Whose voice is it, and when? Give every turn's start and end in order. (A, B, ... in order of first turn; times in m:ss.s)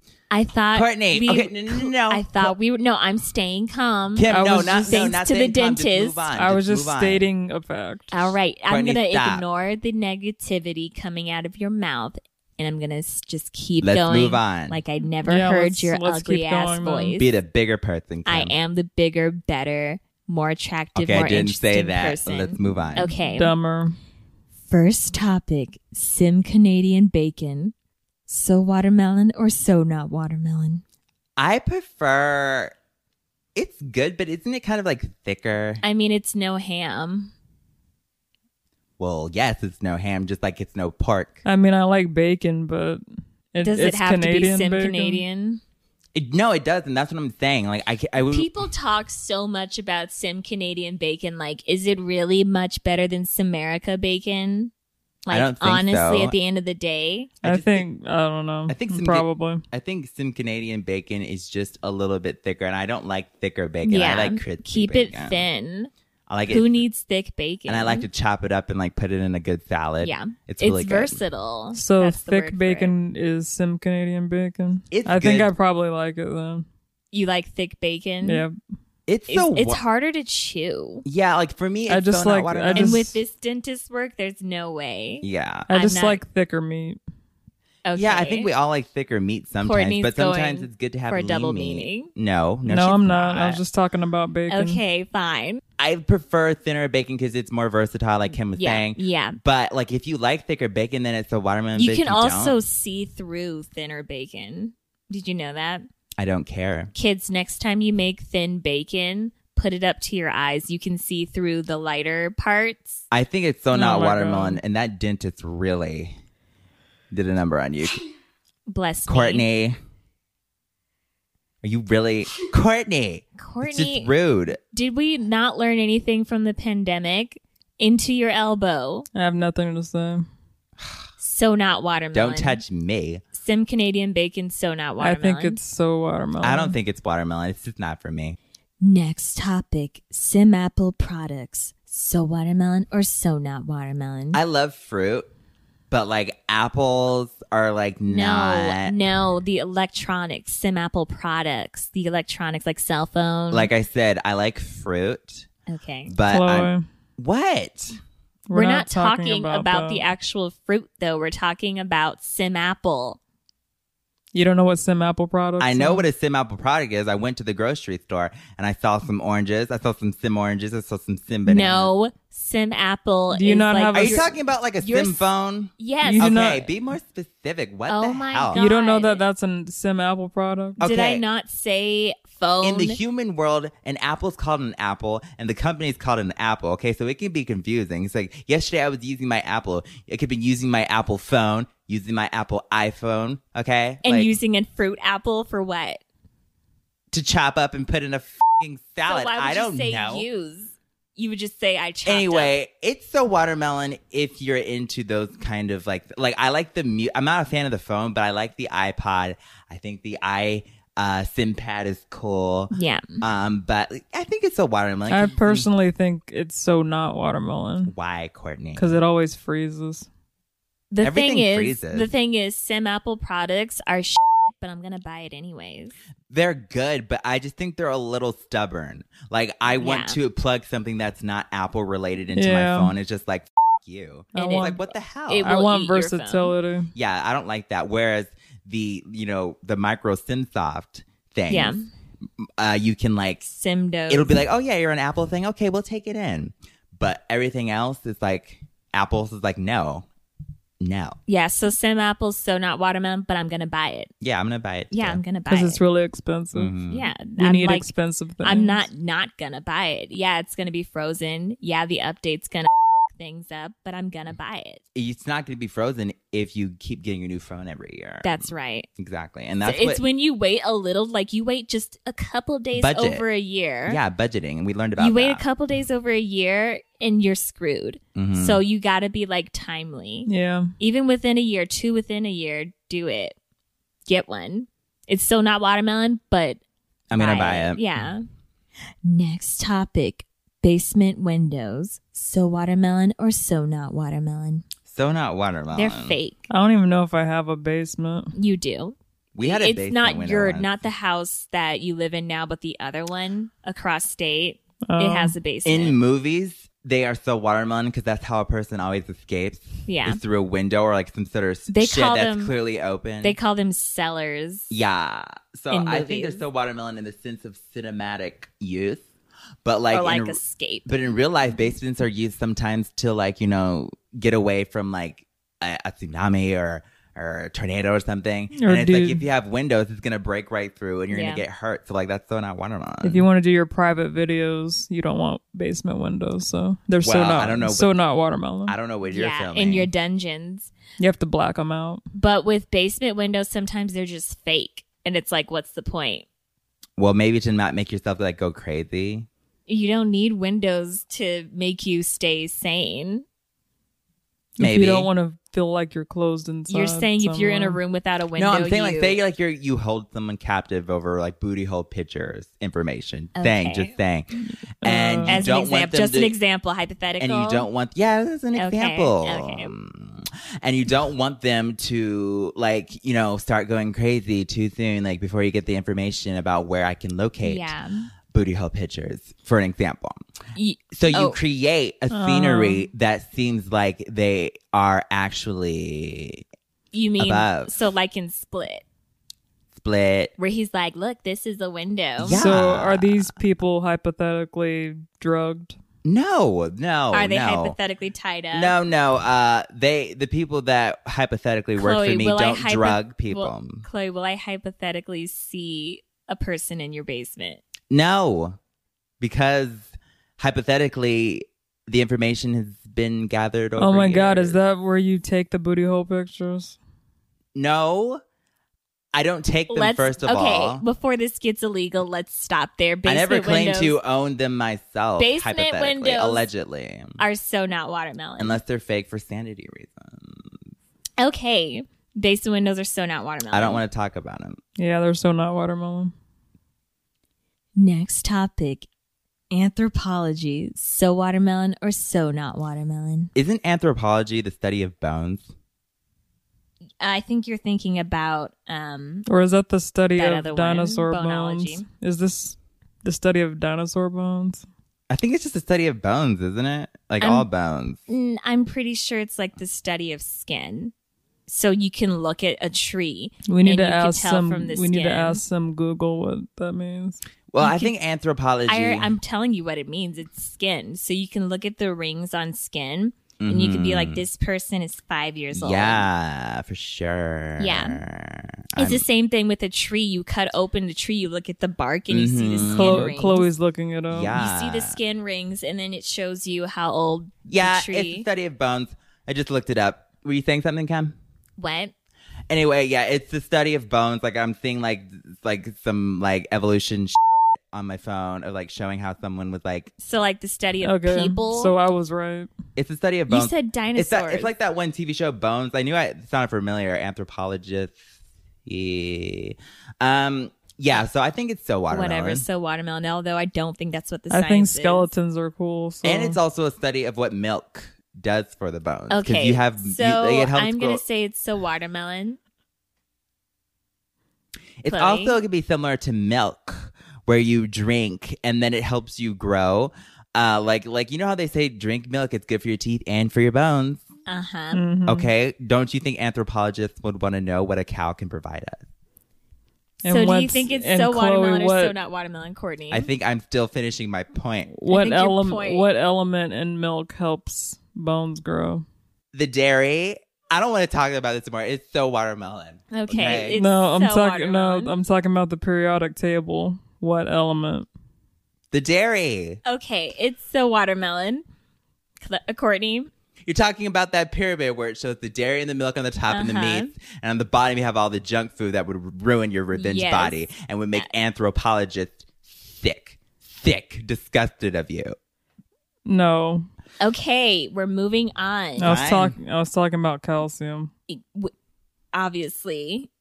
0:00.3-0:04.3 A
0:00.7-0:02.5 B
0:04.1-0:07.3 B
0:04.3-0:05.1 C
0:04.8-0:06.2 A
0:06.3-0:08.3 C
0:08.1-0:17.3 A
0:08.7-0:09.4 B
0:13.8-0:14.8 B
0:15.2-0:17.2 C
0:17.2-0:18.5 B
0:18.2-0:23.5 A
0:20.9-0:23.1 B
0:23.0-0:24.0 C
0:24.7-0:27.7 A
0:28.3-0:30.8 A
0:31.4-0:32.7 B
0:33.5-0:35.8 B
0:35.8-0:37.3 A
0:39.0-0:41.4 B
0:41.4-0:43.0 C
0:43.5-0:45.2 C
0:43.6-0:45.6 A
0:46.1-0:48.5 B
0:48.3-0:54.7 A
0:55.2-0:57.3 A
0:55.3-0:56.3 B
0:57.4-0:57.8 B
0:57.4-0:59.6 C
0:58.7-1:05.4 B
1:03.8-1:05.9 A
1:06.3-1:06.8 B
1:06.5-1:08.1 A
1:07.7-1:11.2 B
1:10.0-1:12.9 A
1:11.7-1:16.6 C
1:14.9-1:15.5 B
1:17.1-1:18.4 A
1:18.2-1:18.5 C
1:19.1-1:19.8 B
1:19.3-1:21.0 A
1:21.0-1:23.0 B
1:21.9-1:23.2 C
1:22.7-1:26.2 A
1:25.2-1:25.7 B
1:25.7-1:27.0 C
1:27.8-1:28.5 A
1:27.9-1:33.6 B
1:29.6-1:32.1 A
1:32.6-1:34.8 C
1:34.5-1:35.6 A
1:35.8-1:42.6 B
1:38.5-1:39.4 A
1:41.8-1:45.8 A
1:46.2-1:46.9 B
1:46.9-1:53.0 A
1:53.1-1:56.2 B
1:53.7-1:54.6 C
1:57.1-1:58.0 B
1:58.7-1:59.4 A
1:59.1-1:59.8 B
2:01.6-2:04.6 B
2:03.4-2:04.1 A
2:04.7-2:09.0 A
2:09.1-2:10.2 C
2:11.2-2:12.6 A
2:12.1-2:13.2 B
2:13.3-2:15.6 A
2:15.0-2:16.8 C
2:16.4-2:18.4 B
2:18.8-2:24.4 A
2:24.3-2:25.3 B
2:25.9-2:29.0 B
2:28.1-2:33.7 A
2:33.5-2:35.5 B
2:35.7-2:36.2 A
2:36.1-2:38.0 B
2:36.3-2:36.8 C
2:38.5-2:40.0 C
2:38.5-2:43.2 A
2:44.3-2:46.0 C
2:45.6-2:51.9 B
2:51.4-2:55.3 A
2:53.3-2:54.3 C
2:53.9-2:58.6 B
2:55.8-2:56.4 A
2:56.0-2:56.7 C
2:57.9-2:59.2 A
2:58.5-3:00.8 C
3:00.8-3:01.2 B
3:00.8-3:03.0 A
3:02.6-3:14.3 B
3:14.0-3:16.0 A
3:17.1-3:20.2 B
3:19.0-3:22.5 A
3:22.0-3:35.7 B
3:32.7-3:33.2 A
3:35.1-3:37.9 C
3:37.8-3:38.9 B
3:38.8-3:40.1 C
3:40.9-3:45.9 A
3:41.0-3:42.1 B
3:46.3-3:55.5 B
3:49.8-3:50.2 A
3:52.3-3:52.9 C
3:54.3-3:54.8 C
3:54.3-3:56.5 A
3:55.4-3:56.9 C
3:56.9-4:01.8 B
4:01.5-4:01.9 A
4:02.4-4:03.4 B
4:03.4-4:04.4 A
4:04.1-4:10.1 B
4:10.8-4:11.2 B
4:11.3-4:14.1 A
4:14.2-4:15.2 B
4:14.9-4:15.8 A
4:15.5-4:16.7 C
4:16.5-4:17.1 B
4:16.9-4:17.9 A
4:17.4-4:18.8 C
4:18.4-4:24.8 A
4:24.9-4:30.0 B
4:28.2-4:28.9 A
4:29.6-4:34.0 A
4:32.7-4:33.2 B
4:33.8-4:35.4 B
4:35.0-4:43.4 A
4:38.1-4:38.6 B
4:40.2-4:40.7 C
4:44.1-4:46.6 A
4:47.1-4:47.8 B
4:47.2-4:48.2 A
4:49.0-4:54.6 A
4:54.9-4:56.2 B
4:55.7-4:56.5 A
4:56.5-4:58.3 C
4:58.3-5:06.0 A
4:59.3-5:00.7 B
5:04.9-5:05.3 C
5:05.6-5:13.4 B
5:09.9-5:10.2 A
5:11.7-5:12.5 A
5:13.2-5:14.7 A
5:14.7-5:19.0 B
5:15.7-5:16.4 A
5:19.6-5:33.2 B
5:19.9-5:20.9 A
5:28.5-5:29.2 C
5:31.1-5:31.4 A
5:33.0-5:38.7 C
5:37.0-5:37.9 B
5:38.7-5:39.9 B
5:39.1-5:40.7 A
5:41.0-5:42.0 C
5:42.1-5:46.2 A
5:47.0-5:49.3 B
5:49.7-5:53.2 A
5:54.6-5:55.1 B
5:54.6-5:57.8 C
5:56.7-5:59.2 A
5:58.4-6:06.3 B
6:03.4-6:04.0 A
6:04.8-6:05.4 C
6:05.3-6:07.7 A
6:07.2-6:17.7 B
6:08.5-6:09.7 A
6:17.4-6:18.1 A
6:18.3-6:20.2 B
6:20.6-6:21.4 A
6:20.9-6:26.4 B
6:22.1-6:22.8 C
6:26.9-6:28.8 A
6:27.2-6:27.7 B
6:29.7-6:30.3 B
6:30.4-6:32.5 A
6:32.2-6:33.3 B
6:32.3-6:35.8 C
6:36.0-6:37.8 B
6:37.1-6:38.8 A
6:38.5-6:43.8 B
6:41.8-6:47.6 A
6:47.9-6:48.6 B
6:49.2-6:54.6 B
6:53.8-6:56.8 C
6:57.5-6:58.2 B
6:59.1-7:00.8 B
6:59.7-7:04.0 A
7:03.0-7:07.2 B
7:05.2-7:06.5 A
7:07.2-7:08.6 A
7:08.4-7:10.6 B
7:11.2-7:13.8 A
7:13.5-7:14.6 B
7:14.8-7:16.1 C
7:17.8-7:18.9 A
7:19.5-7:23.3 A
7:23.3-7:25.5 B
7:27.0-7:29.2 A
7:29.3-7:34.6 C
7:30.2-7:31.8 A
7:35.1-7:38.0 B
7:37.2-7:37.5 A
7:38.1-7:40.9 A
7:41.5-7:45.4 A
7:43.5-7:47.2 C
7:47.5-7:49.1 B
7:47.6-7:47.9 A
7:48.7-7:56.0 A
7:53.4-7:54.2 B
7:55.5-7:59.0 B
7:57.6-7:58.0 A
7:58.8-8:03.5 A
8:02.1-8:03.1 B
8:02.6-8:04.4 C
8:04.1-8:05.0 B
8:04.3-8:08.2 A
8:07.5-8:11.1 B
8:11.6-8:11.9 A
8:12.5-8:19.9 B
8:20.0-8:21.7 A
8:20.8-8:22.5 C
8:22.8-8:28.0 B
8:23.3-8:24.5 A
8:28.6-8:32.4 B
8:31.9-8:35.1 A
8:34.3-8:36.4 C
8:36.0-8:41.0 B
8:39.1-8:42.4 A
8:44.8-8:54.0 B
8:44.9-8:45.4 A
8:54.3-8:54.8 A
8:54.7-8:55.3 C
8:55.1-8:58.8 B
9:00.0-9:01.9 C
9:00.0-9:03.1 A
9:02.9-9:04.7 B
9:04.7-9:08.8 C
9:04.9-9:05.8 A
9:09.3-9:13.6 B
9:12.9-9:14.9 A
9:13.5-9:17.9 C
9:18.7-9:19.6 B
9:19.6-9:21.4 A
9:22.2-9:23.1 A
9:23.4-9:35.1 B
9:26.3-9:26.9 A
9:29.7-9:31.1 A
9:36.0-9:36.7 C
9:37.0-9:39.0 A
9:38.8-9:40.9 C
9:38.8-9:39.4 B
9:41.1-9:41.5 A
9:42.1-9:43.1 A